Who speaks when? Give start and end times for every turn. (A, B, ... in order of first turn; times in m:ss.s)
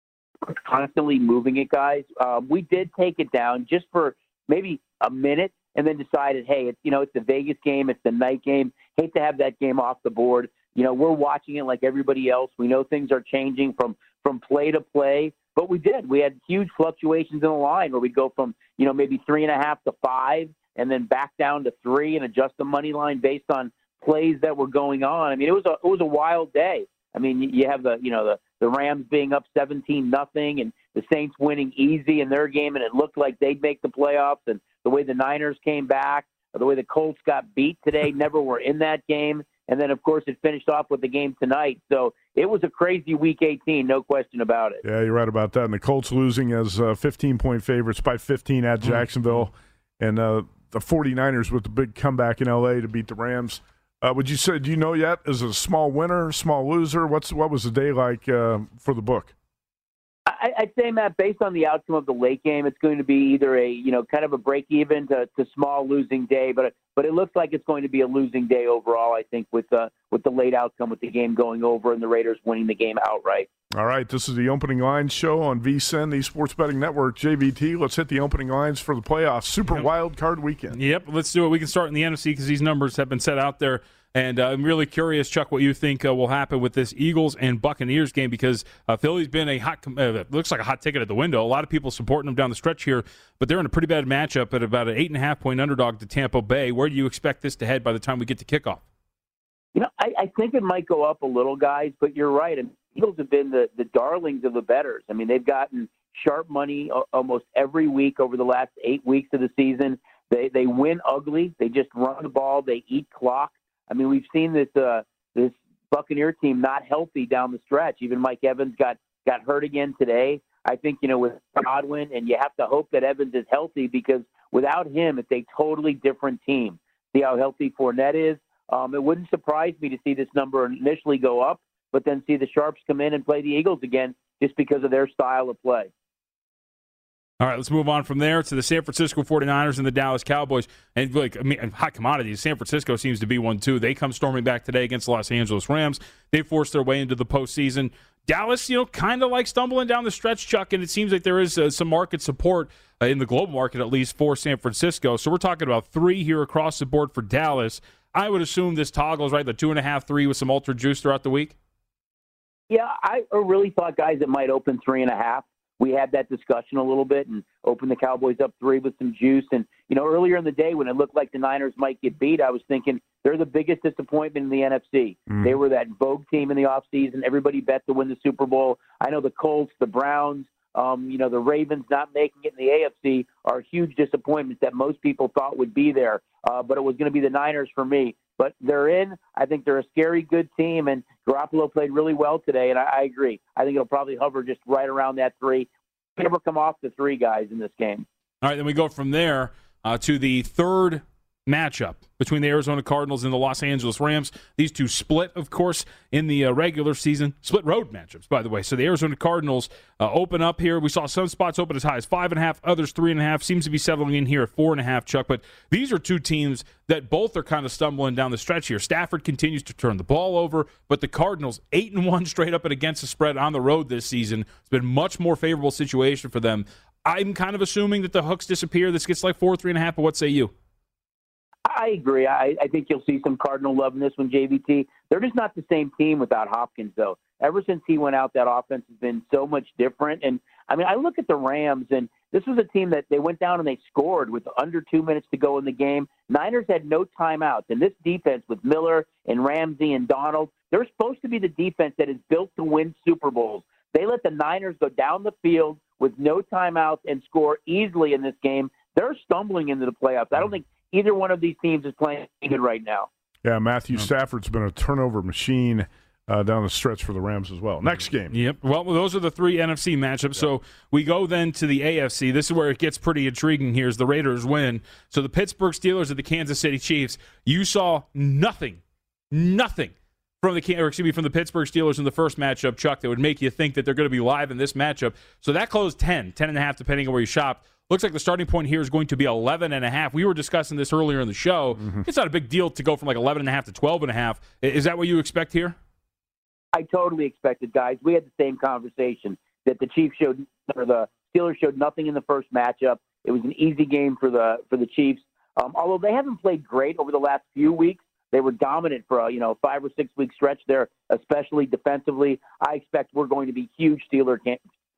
0:00.4-0:44.8 A
0:44.8-0:59.3 B
1:00.3-1:13.5 A
1:13.7-1:20.8 B
1:20.7-1:38.8 C
1:39.7-2:15.9 A
2:17.4-2:41.5 C
2:42.7-3:18.0 A
2:55.3-2:55.5 B
3:18.4-3:50.5 C
3:51.7-4:23.1 A
4:23.4-4:28.3 B
4:28.3-4:38.8 C
4:39.3-4:55.8 C
4:56.7-5:14.6 A